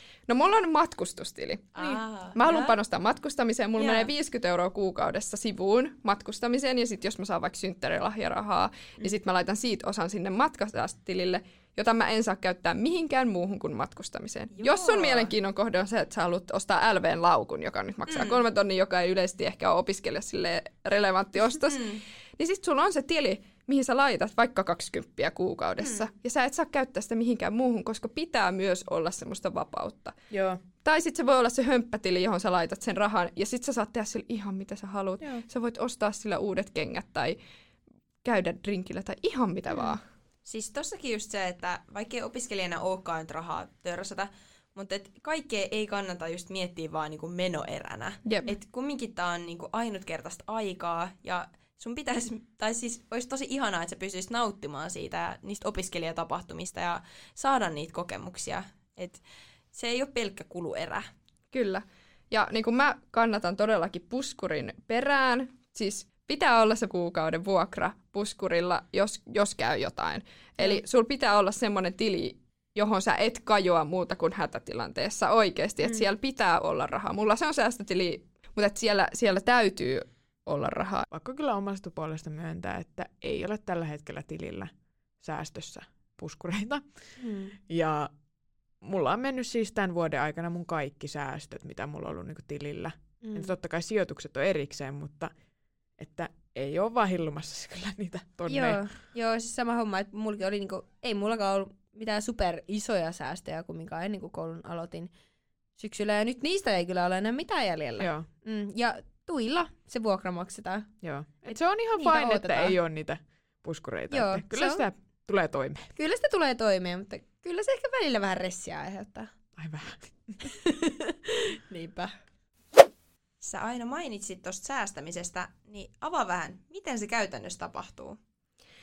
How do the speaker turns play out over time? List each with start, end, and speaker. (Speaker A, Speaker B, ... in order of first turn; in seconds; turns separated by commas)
Speaker A: 0.3-1.8, Speaker B: 1.8-2.8, Speaker A: 2.3-30.2, Speaker B: 3.8-4.1, Speaker B: 14.6-15.3, Speaker B: 18.1-18.4, Speaker B: 21.7-22.0, Speaker B: 25.8-26.1, Speaker C: 30.3-30.6, Speaker A: 30.8-37.4, Speaker A: 38.2-40.0, Speaker B: 40.5-61.1, Speaker A: 48.2-48.5, Speaker A: 61.5-81.1, Speaker C: 81.1-87.2, Speaker D: 87.2-87.6, Speaker C: 87.7-88.1, Speaker C: 88.8-95.3, Speaker D: 93.2-93.5, Speaker C: 96.0-98.8, Speaker D: 98.5-105.1, Speaker D: 105.8-110.9, Speaker C: 108.0-108.3, Speaker C: 111.0-115.9, Speaker D: 111.5-112.8, Speaker D: 114.1-114.8, Speaker D: 116.0-119.3, Speaker C: 119.6-120.5, Speaker D: 120.5-122.2, Speaker B: 123.4-128.2